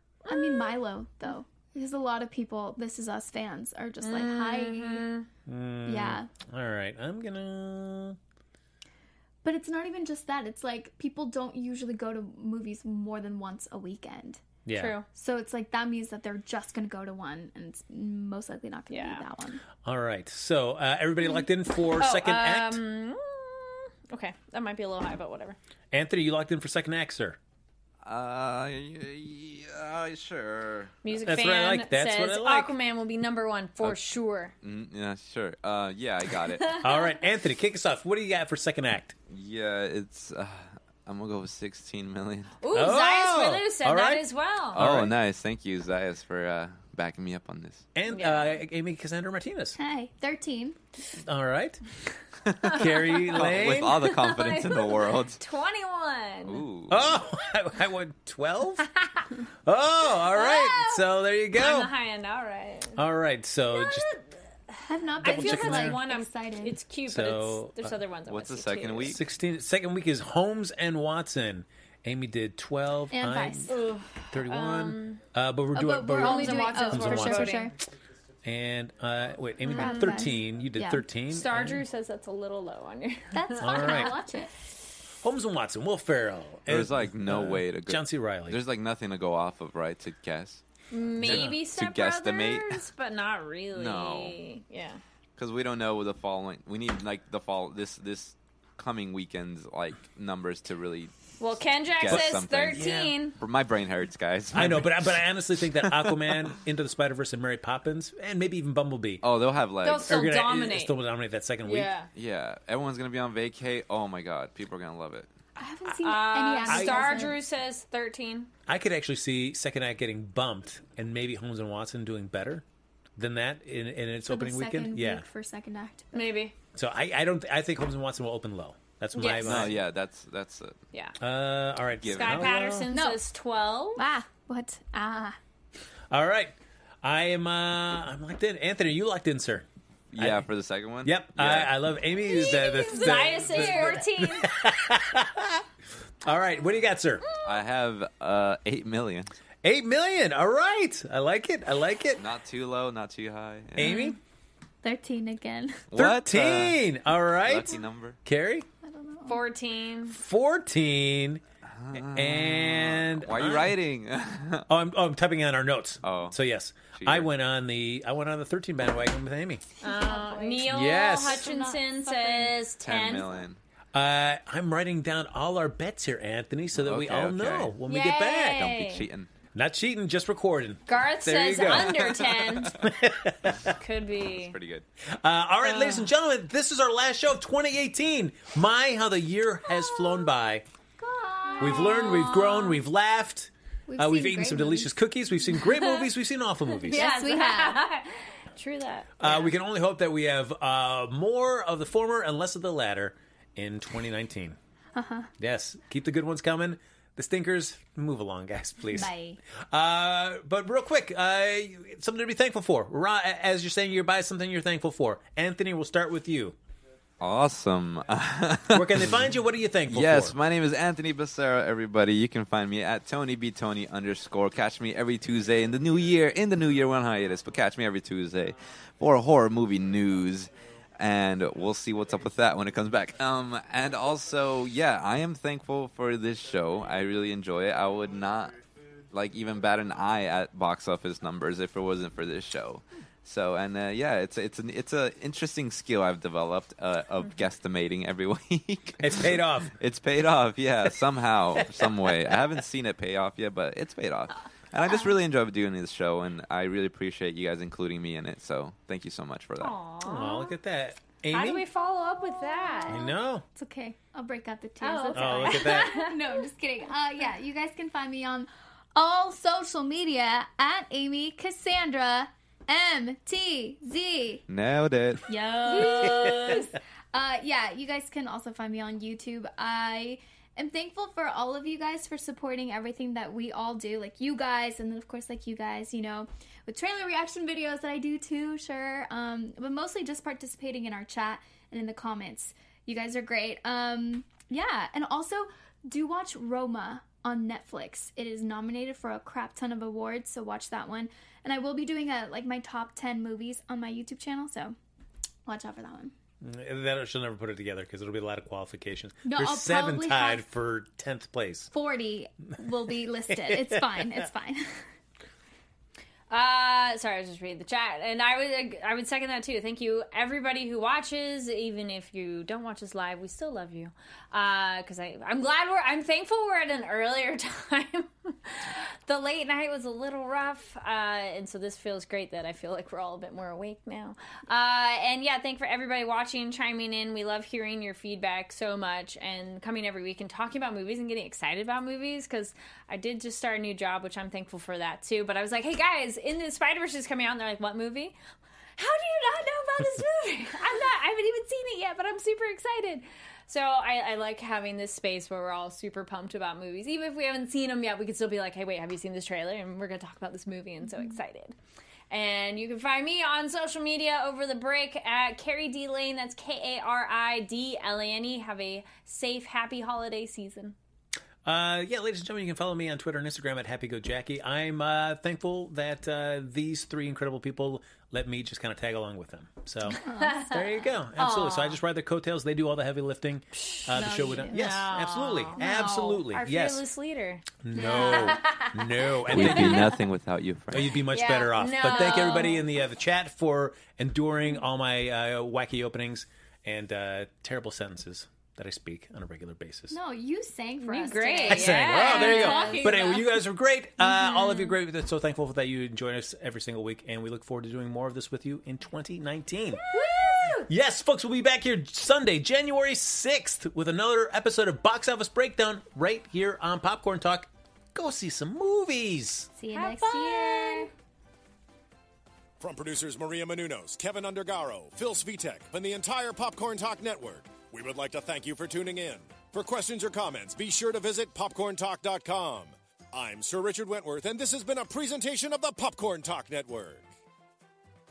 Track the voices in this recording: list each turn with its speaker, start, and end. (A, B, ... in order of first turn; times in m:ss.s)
0:00.2-0:00.8 A
0:00.3-0:05.1 B
0:04.0-0:05.3 A
0:05.4-0:08.2 C
0:05.8-0:06.3 B
0:09.4-0:14.4 B
0:14.6-0:15.0 C
0:14.7-0:15.0 A
0:15.1-0:19.6 B
0:18.9-0:19.2 A
0:19.8-0:22.8 C
0:21.9-0:25.6 A
0:25.9-0:27.4 C
0:28.0-0:31.2 D
0:31.0-0:34.5 A
0:31.2-0:32.7 C
0:34.6-0:36.7 D
0:36.6-0:37.0 A
0:36.8-0:39.2 C
0:39.3-0:42.6 D
0:42.6-0:44.8 A
0:42.7-0:45.2 C
0:44.7-0:47.8 D
0:47.9-0:49.8 C
0:48.1-0:48.6 A
0:49.8-0:50.8 B
0:51.2-0:51.8 C
0:52.5-0:55.4 D
0:52.6-0:56.6 A
0:52.6-0:54.0 C
0:56.4-0:57.2 D
0:56.9-0:58.9 C
0:59.6-1:01.9 C
1:00.3-1:03.0 A
1:03.0-1:04.1 C
1:03.7-1:09.2 A
1:04.9-1:06.8 B
1:05.2-1:06.0 C
1:07.1-1:08.0 C
1:08.3-1:09.2 D
1:09.0-1:13.7 C
1:13.1-1:13.8 B
1:13.7-1:15.2 A
1:14.3-1:17.6 C
1:15.7-1:17.7 B
1:16.1-1:17.7 A
1:18.4-1:21.8 C
1:19.6-1:21.0 B
1:19.7-1:20.3 A
1:21.3-1:24.2 A
1:23.3-1:24.5 B
1:23.6-1:24.1 C
1:25.2-1:28.6 C
1:26.7-1:30.6 D
1:30.9-1:35.0 A
1:31.2-1:32.8 D
1:31.2-1:31.6 C
1:33.7-1:34.4 D
1:35.4-1:46.5 D
1:41.4-1:43.4 A
1:42.1-1:43.1 C
1:44.5-1:49.2 C
1:49.2-1:50.3 D
1:49.8-1:51.0 A
1:50.1-1:51.9 C
1:51.6-1:52.1 A
1:52.1-1:55.3 D
1:55.6-1:57.4 B
1:55.8-1:58.5 A
1:56.7-1:57.2 C
1:58.7-2:02.6 C
2:03.2-2:05.2 C
2:04.3-2:06.3 B
2:06.1-2:06.5 A
2:06.7-2:09.7 C
2:09.1-2:09.7 A
2:09.4-2:10.8 D
2:11.2-2:12.9 C
2:12.0-2:12.6 D
2:12.1-2:14.0 A
2:12.9-2:13.2 B
2:14.0-2:15.4 B
2:16.1-2:19.7 C
2:20.1-2:21.8 D
2:20.2-2:20.5 C
2:21.0-2:25.6 C
2:22.2-2:24.5 A
2:23.4-2:23.9 D
2:26.2-2:27.2 C
2:27.4-2:29.3 D
2:29.6-2:32.2 C
2:32.2-2:34.0 D
2:33.8-2:34.2 C
2:33.8-2:34.1 A
2:34.8-2:35.8 B
2:35.9-2:38.2 D
2:35.9-2:38.6 C
2:38.8-2:39.4 B
2:39.3-2:40.2 A
2:40.1-2:41.4 C
2:41.6-2:44.7 D
2:41.9-2:43.8 C
2:44.7-2:49.6 C
2:46.0-2:46.4 D
2:46.9-2:47.3 D
2:49.8-2:52.6 B
2:49.8-2:53.4 A
2:50.7-2:51.4 C
2:52.8-2:53.6 D
2:53.9-2:58.7 C
2:56.7-2:57.8 D
2:57.9-2:59.1 A
2:58.5-2:59.3 D
2:59.5-3:03.7 C
3:00.9-3:02.9 A
3:03.8-3:04.6 A
3:04.3-3:04.8 D
3:05.2-3:10.6 C
3:05.6-3:06.1 A
3:09.8-3:10.3 A
3:11.0-3:12.7 A
3:11.4-3:12.5 B
3:11.6-3:17.0 C
3:13.9-3:14.9 B
3:16.9-3:19.4 A
3:16.9-3:17.8 B
3:19.2-3:24.6 C
3:24.9-3:25.3 B
3:25.4-3:29.1 C
3:28.9-3:29.4 B
3:29.7-3:36.6 C
3:37.2-3:39.2 D
3:38.7-3:40.4 C
3:39.9-4:19.7 D
4:09.0-4:09.7 C
4:19.6-4:20.5 A
4:20.0-4:21.6 C
4:21.3-4:23.0 A
4:22.6-4:34.4 B
4:22.9-4:23.4 C
4:24.8-4:26.4 A
4:25.1-4:25.9 C
4:34.5-4:35.2 D
4:35.3-5:04.8 B
4:35.6-4:36.7 A
5:05.4-5:06.1 B
5:06.4-5:11.7 C
5:09.2-5:10.4 B
5:11.7-5:14.8 B
5:13.3-5:13.8 C
5:16.3-5:48.2 A
5:48.8-6:01.5 A
6:02.1-6:10.8 A
6:11.4-6:26.8 C
6:19.9-6:20.5 A
6:20.0-6:20.4 B
6:21.2-6:21.8 A
6:23.9-6:24.7 B
6:24.5-6:28.7 A
6:27.6-6:29.9 C
6:27.8-6:28.6 B
6:29.3-6:31.0 D
6:29.3-6:30.0 A
6:30.7-6:40.0 C
6:31.1-6:32.6 A
6:39.9-6:43.1 B
6:40.8-6:43.4 A
6:41.5-6:49.8 C
6:49.9-6:50.7 A
6:50.6-6:59.5 C
6:59.6-7:00.9 B
6:59.7-7:00.9 A
7:02.6-7:17.1 E